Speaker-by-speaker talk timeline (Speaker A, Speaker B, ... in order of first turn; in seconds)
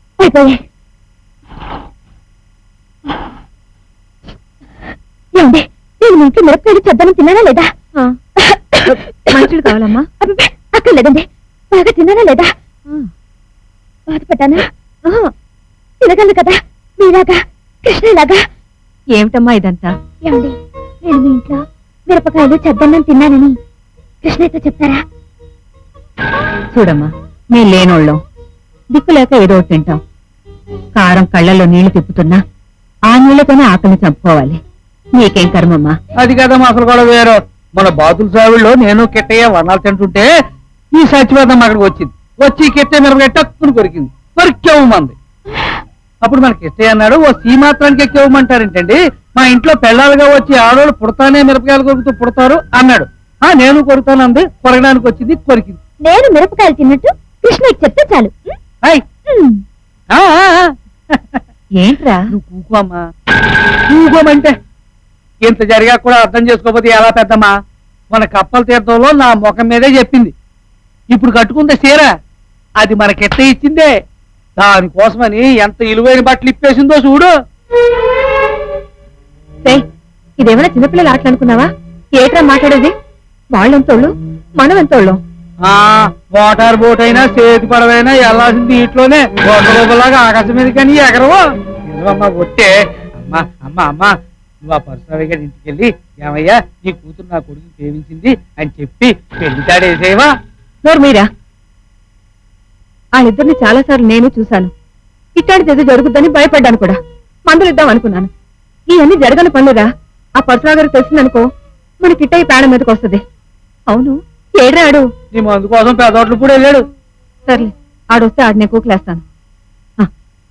Speaker A: 0.2-0.6, 5.3-7.7, 8.4-8.8, 10.2-12.5, 14.1-14.7, 16.0-18.4, 20.2-23.6, 24.2-25.0, 56.0-58.5, 59.3-59.6
Speaker B: 9.3-10.1, 15.1-15.3, 19.1-19.9, 26.7-28.2, 28.9-30.0, 30.9-32.4, 33.1-34.6, 35.2-36.0, 61.8-62.3, 80.4-82.9, 83.5-85.2, 100.8-101.3, 103.2-104.7, 105.3-108.3, 108.9-111.5, 112.0-113.2, 113.9-115.1, 117.5-119.2
Speaker C: 36.2-40.3, 40.9-45.1, 46.2-55.8, 60.1-61.4, 62.3-63.0, 63.9-64.5, 65.4-67.5, 68.1-70.3, 71.1-72.1, 72.8-73.9, 74.6-77.3, 85.7-100.3, 115.3-116.8